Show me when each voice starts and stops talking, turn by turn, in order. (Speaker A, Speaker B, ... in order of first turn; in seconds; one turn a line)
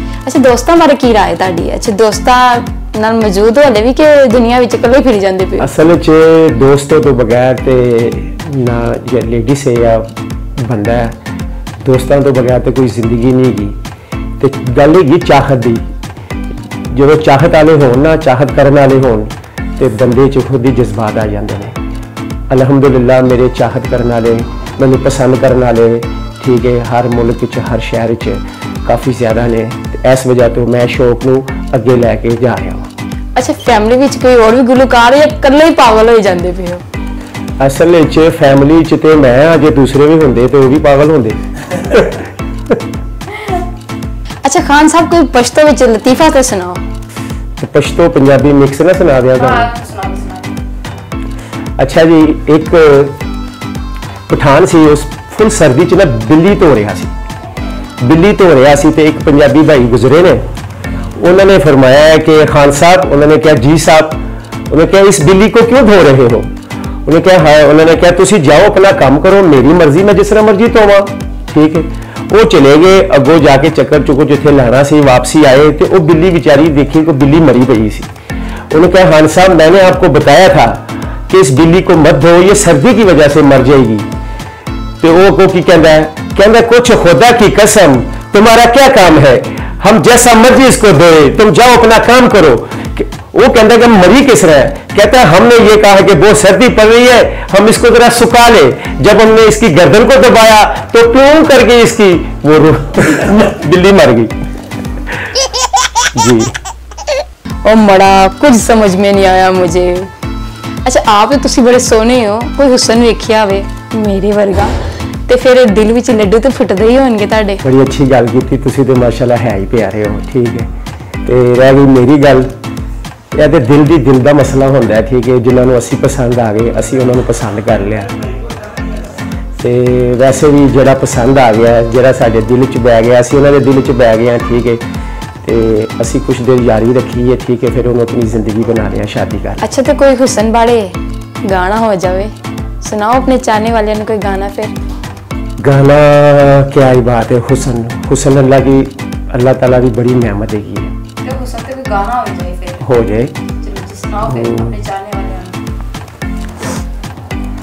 Speaker A: 0.2-5.7
Speaker B: 5.6-10.1
Speaker B: 10.6-11.2
Speaker B: 11.8-13.8
Speaker B: 14.4-15.8
Speaker B: 16.9-21.8
Speaker B: 22.5-32.9
Speaker A: 33.4-36.8
Speaker B: 37.6-42.8
Speaker A: 44.4-46.8
Speaker B: 47.6-49.7
Speaker A: 49.3-50.6
Speaker B: 51.8-53.2
Speaker B: 54.3-57.1
Speaker B: 58.0-60.4
Speaker B: 61.2-66.5
Speaker B: 67.1-78.1
Speaker B: 78.7-84.1
Speaker B: 85.0-104.3
Speaker B: 106.0-106.5
Speaker A: 107.7-110.1
Speaker A: 110.8-114.8
Speaker A: 115.3-117.6
Speaker B: 117.6-120.7
Speaker B: 121.2-122.5
Speaker B: 123.3-128.1
Speaker B: 129.6-134.8
Speaker B: 135.4-139.7
Speaker A: 139.6-144.7
Speaker B: 145.6-150.9
Speaker A: 151.2-152.9
Speaker B: 152.8-153.3
Speaker A: 153.5-155.6
Speaker B: 154.2-154.8